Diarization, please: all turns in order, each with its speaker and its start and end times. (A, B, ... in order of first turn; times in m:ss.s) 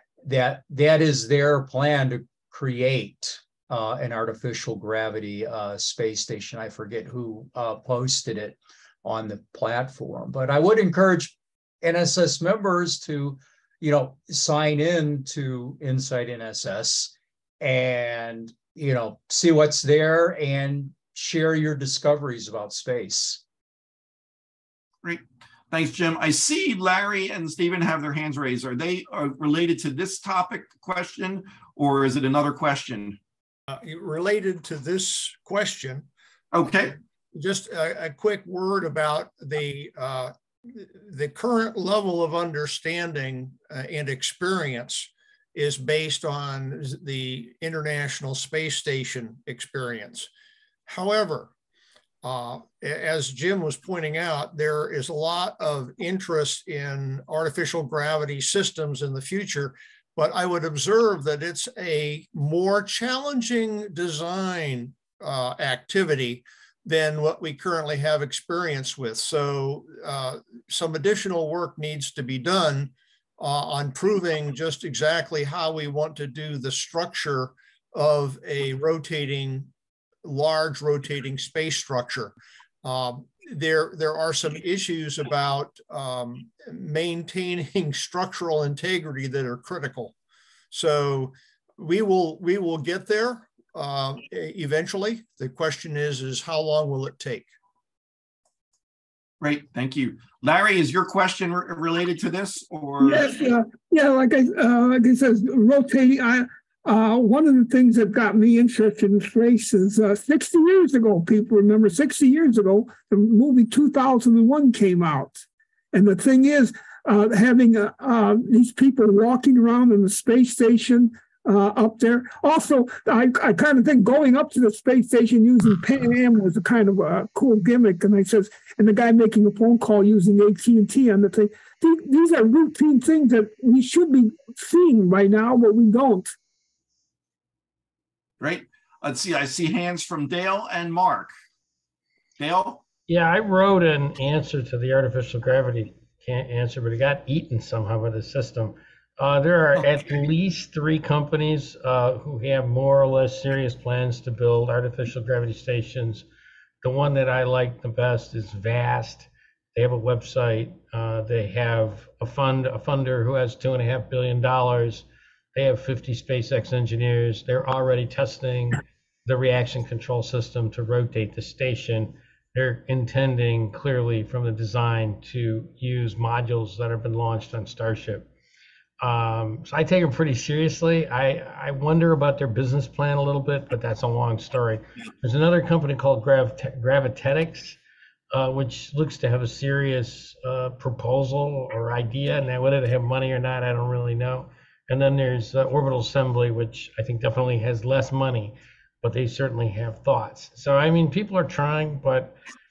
0:00.2-0:23.4 A
0:25.0-0:33.2 B
0:33.7-0:36.1 C
0:36.5-0:37.0 B
0:37.3-0:50.3 C
0:50.9-0:51.5 C
0:52.2-1:19.7 C
1:20.2-1:30.2 C
1:30.7-1:37.5 C
1:39.4-1:43.3 B
1:43.0-1:55.4 D
1:55.9-2:16.3 D
2:18.4-2:21.3 B
2:22.4-2:22.8 B
2:23.1-2:36.3 E
2:36.8-2:58.3 E
2:59.0-3:07.8 E
3:08.3-3:22.4 E